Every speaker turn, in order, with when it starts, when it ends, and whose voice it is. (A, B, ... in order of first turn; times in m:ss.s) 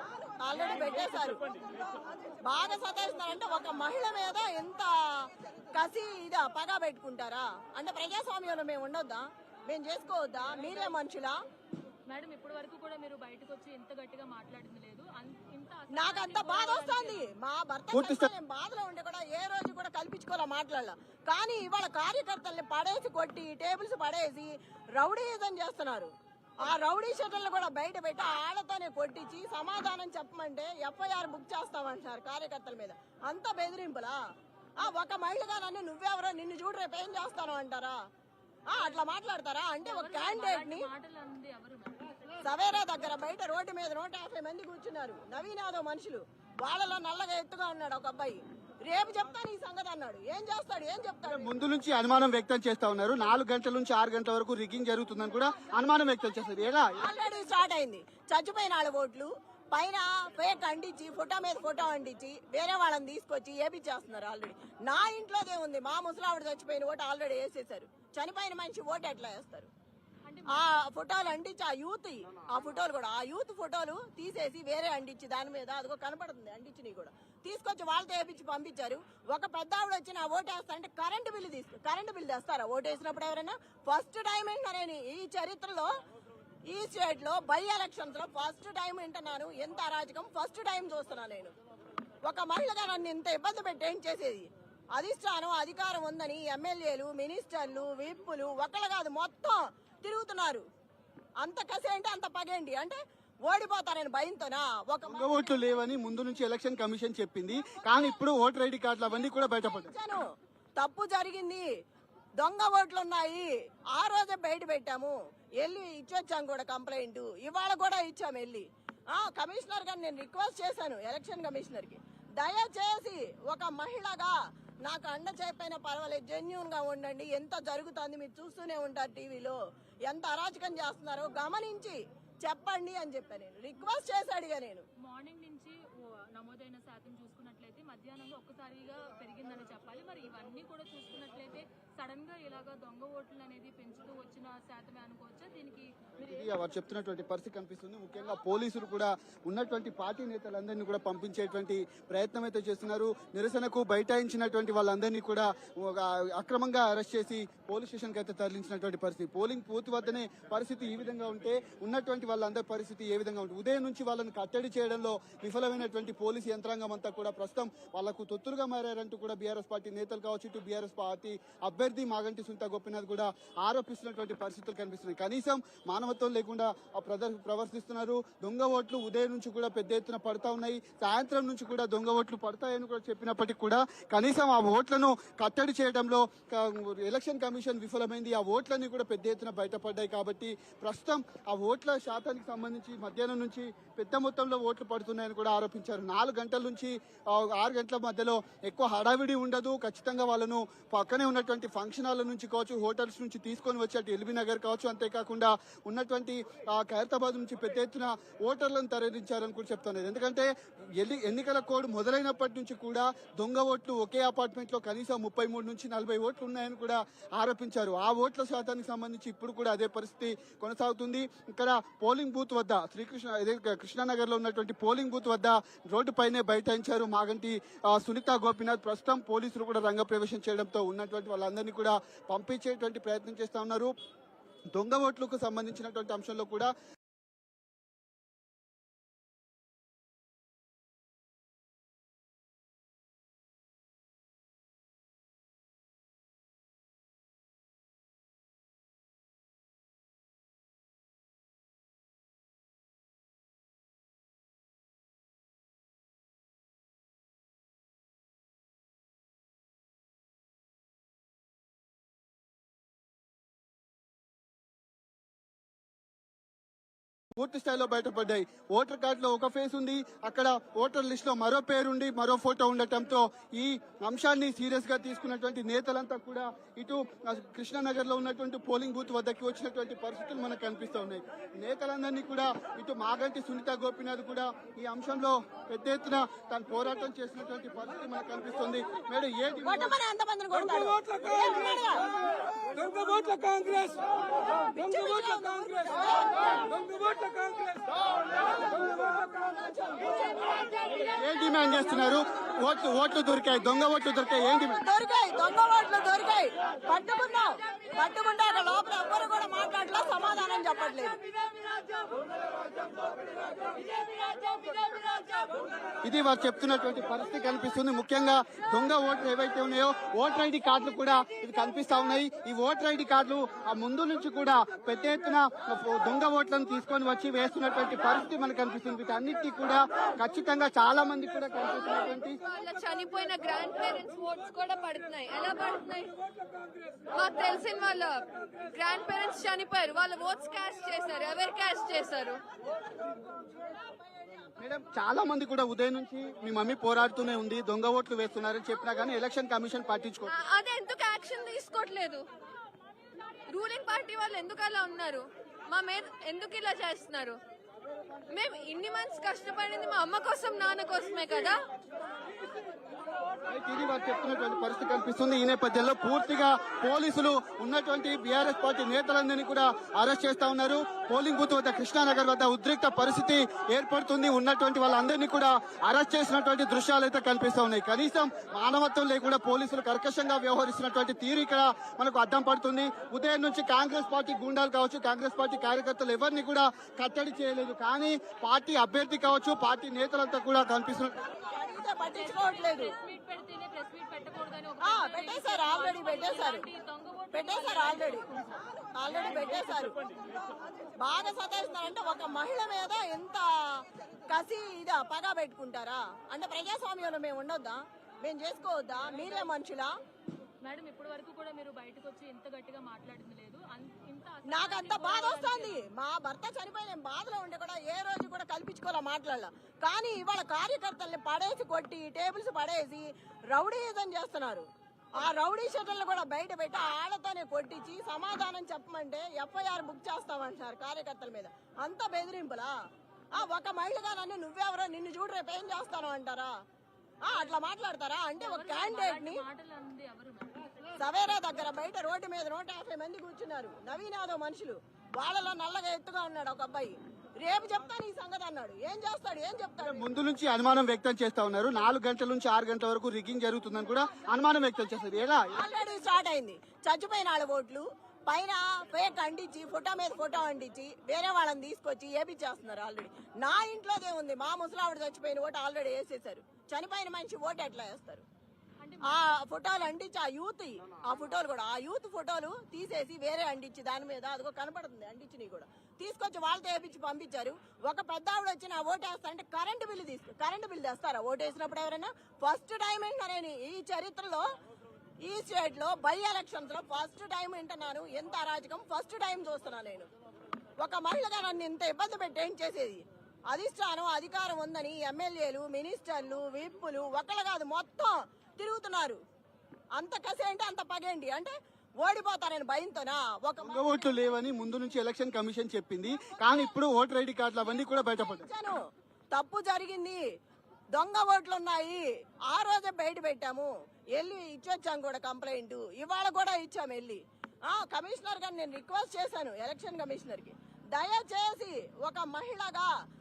0:00.4-0:01.4 A
0:02.4-0:11.3 A
0:12.1-0:17.3 B
0:16.0-0:34.2 A
0:17.9-0:18.3 C
0:34.8-0:38.0 A
0:38.7-0:40.9 A
0:38.8-0:39.0 B
0:39.8-0:42.0 B
0:42.4-0:51.5 A
0:51.2-0:57.1 C
0:57.0-1:09.7 A
1:10.3-1:10.7 B
1:10.5-1:25.9 A
1:26.7-1:31.5 A
1:32.3-1:40.6 A
1:41.4-1:45.6 A
1:45.1-1:49.9 C
1:49.2-1:51.7 A
1:52.4-2:09.6 A
2:10.1-2:14.8 A
2:15.0-2:25.9 B
2:26.2-3:53.9 C
3:54.7-3:56.7 C
4:27.4-4:50.0 C
4:49.6-4:52.0 A
4:54.7-4:56.7 A
4:59.0-5:00.1 A
5:01.2-5:04.8 C
5:04.8-5:11.2 A
5:14.5-5:15.2 A
5:16.0-5:32.4 C
5:32.5-5:36.2 D
5:37.1-5:42.4 D
5:44.6-5:50.4 C
5:50.3-5:52.3 D
5:53.5-5:57.4 D
5:58.3-6:01.6 D
6:03.5-6:31.2 C
6:31.2-6:33.0 A
6:32.1-6:38.5 B
6:34.8-6:36.6 A
6:37.3-6:38.3 A
6:39.0-6:40.0 A
6:41.0-6:49.9 A
6:50.6-6:55.8 B
6:54.5-7:04.7 A
7:05.2-7:12.7 A
7:13.3-7:16.5 A
7:17.3-7:19.4 A
7:17.3-7:17.6 B
7:18.4-7:20.6 B
7:21.0-7:30.1 A
7:29.8-7:35.6 C
7:35.6-7:48.2 A
7:48.8-7:49.2 B
7:49.1-8:04.4 A
8:05.2-8:10.1 A
8:10.8-8:19.2 A
8:20.0-8:24.3 A
8:23.6-8:28.5 C
8:27.6-8:28.8 A
8:29.3-8:30.2 A
8:30.9-8:42.9 A